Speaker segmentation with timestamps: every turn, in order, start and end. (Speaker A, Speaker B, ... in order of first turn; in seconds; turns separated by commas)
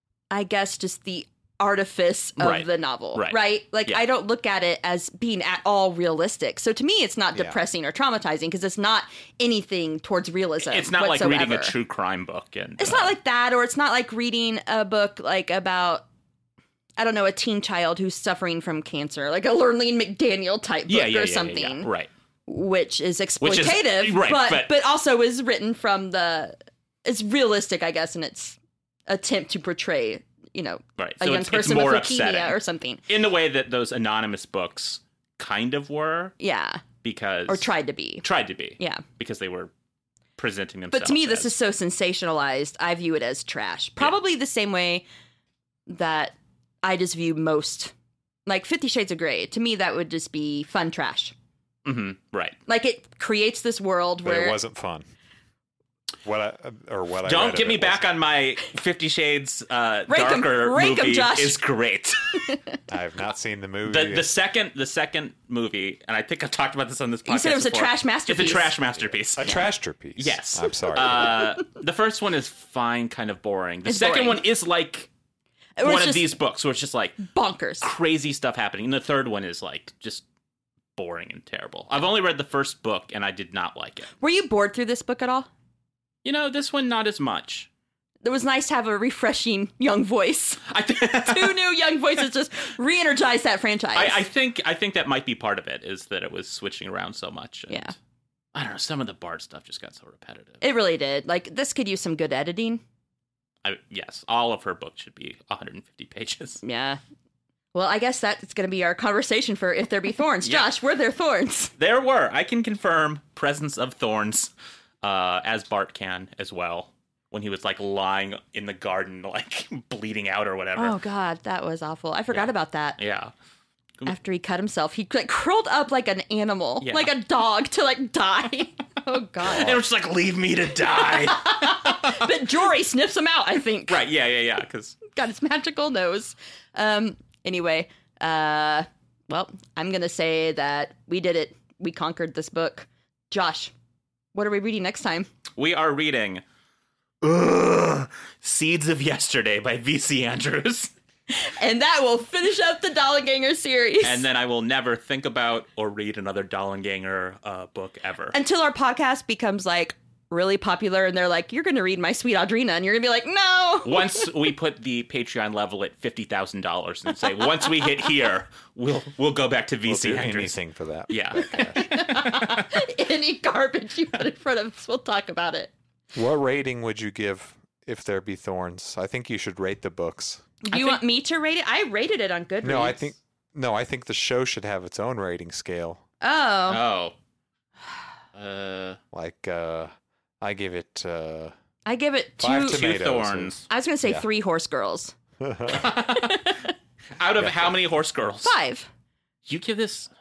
Speaker A: 0.3-11.7, Speaker B: 2.4-4.0, Speaker B: 10.6-13.2, Speaker A: 12.8-16.0, Speaker A: 17.0-21.9, Speaker B: 20.9-22.1, Speaker A: 22.5-33.0, Speaker B: 23.4-24.8, Speaker B: 31.0-32.6, Speaker B: 33.1-36.4, Speaker A: 36.4-36.8, Speaker B: 37.0-39.7, Speaker A: 37.5-38.2, Speaker B: 40.4-41.5, Speaker A: 40.9-45.0, Speaker A: 45.9-47.9, Speaker A: 48.5-51.3, Speaker B: 51.9-52.6, Speaker A: 52.7-54.6, Speaker C: 54.2-55.0, Speaker C: 56.2-58.0, Speaker B: 57.3-62.4, Speaker A: 60.1-61.6, Speaker A: 62.4-62.8, Speaker C: 62.9-64.3, Speaker B: 63.9-69.6, Speaker A: 67.3-68.8, Speaker C: 69.2-71.5, Speaker B: 70.2-75.1, Speaker A: 73.9-74.4, Speaker A: 75.8-76.3, Speaker B: 75.8-77.2, Speaker A: 77.2-77.9, Speaker B: 77.8-80.2, Speaker B: 81.0-84.1, Speaker A: 84.2-85.5, Speaker B: 86.2-87.7, Speaker A: 88.2-94.2, Speaker B: 90.7-91.6, Speaker B: 94.0-97.9, Speaker A: 97.7-97.9, Speaker B: 98.5-100.6, Speaker A: 100.6-102.8, Speaker B: 103.6-106.6, Speaker A: 106.6-107.0, Speaker A: 107.7-111.7, Speaker B: 110.5-110.7, Speaker B: 111.8-114.5, Speaker B: 115.0-121.0, Speaker A: 120.8-123.0, Speaker B: 122.3-123.3, Speaker A: 124.1-129.8, Speaker B: 126.8-127.1, Speaker B: 129.4-132.3, Speaker A: 131.0-134.0, Speaker B: 133.9-135.0, Speaker A: 135.1-143.7, Speaker A: 144.3-145.3, Speaker B: 145.6-146.4, Speaker B: 147.2-150.9, Speaker A: 151.3-154.3, Speaker B: 154.0-158.3, Speaker A: 158.3-164.3, Speaker B: 163.8-170.6, Speaker C: 169.9-171.8, Speaker B: 171.1-172.7, Speaker A: 171.7-175.7, Speaker C: 176.1-180.5, Speaker A: 180.7-183.1, Speaker B: 180.7-181.0, Speaker C: 182.6-186.0, Speaker A: 186.2-186.8, Speaker B: 186.7-187.1, Speaker B: 188.3-189.0, Speaker C: 189.1-191.5, Speaker A: 191.8-192.8, Speaker C: 192.4-193.5, Speaker B: 192.6-193.7, Speaker A: 193.7-195.1, Speaker C: 195.4-195.9, Speaker B: 195.7-196.6, Speaker A: 196.2-196.7, Speaker B: 197.2-198.6, Speaker C: 197.4-197.8, Speaker A: 198.4-198.9, Speaker B: 199.5-200.1